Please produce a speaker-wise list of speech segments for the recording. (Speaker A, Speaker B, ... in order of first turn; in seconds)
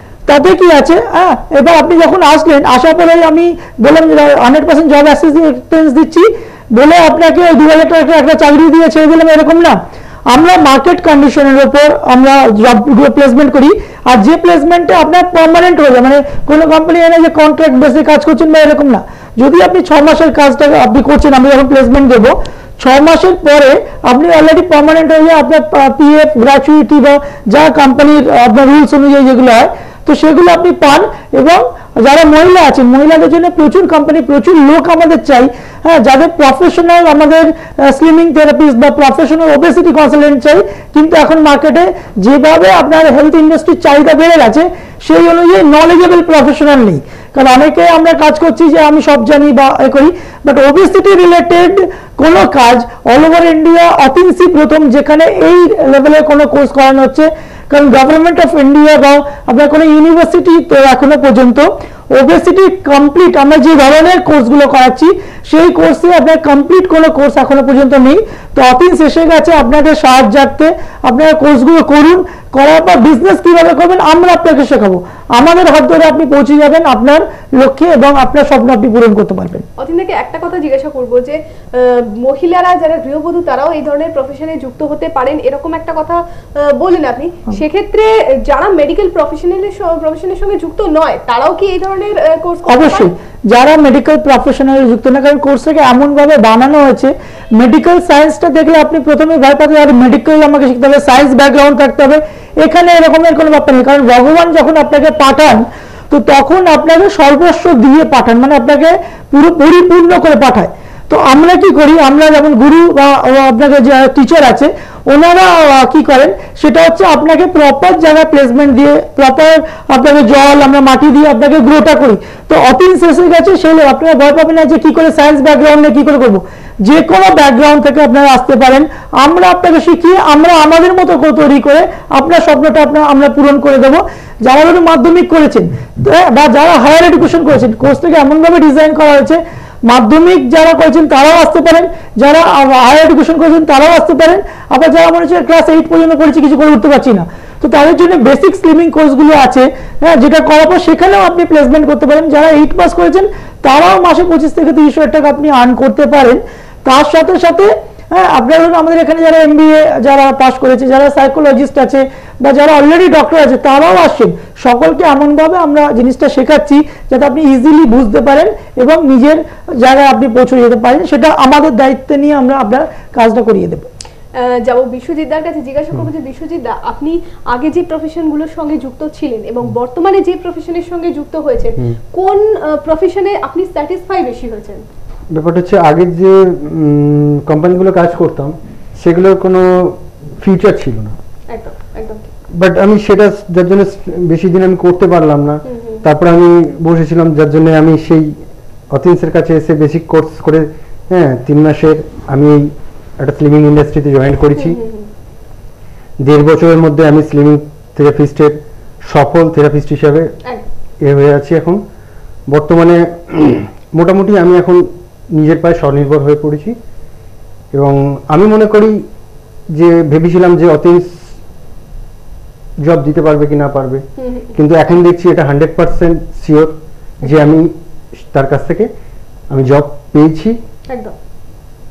Speaker A: 0.3-79.6, 92.7-173.9
Speaker B: 79.8-93.1, 174.3-184.9, 191.5-192.3, 195.7-196.0, 204.6-205.1, 224.2-224.5, 230.9-231.1
Speaker C: 185.3-191.2, 192.5-204.8, 206.2-210.3, 211.0-211.8, 212.5-216.8, 217.7-219.1, 219.7-221.3, 222.8-224.0, 224.5-228.9, 229.5-230.6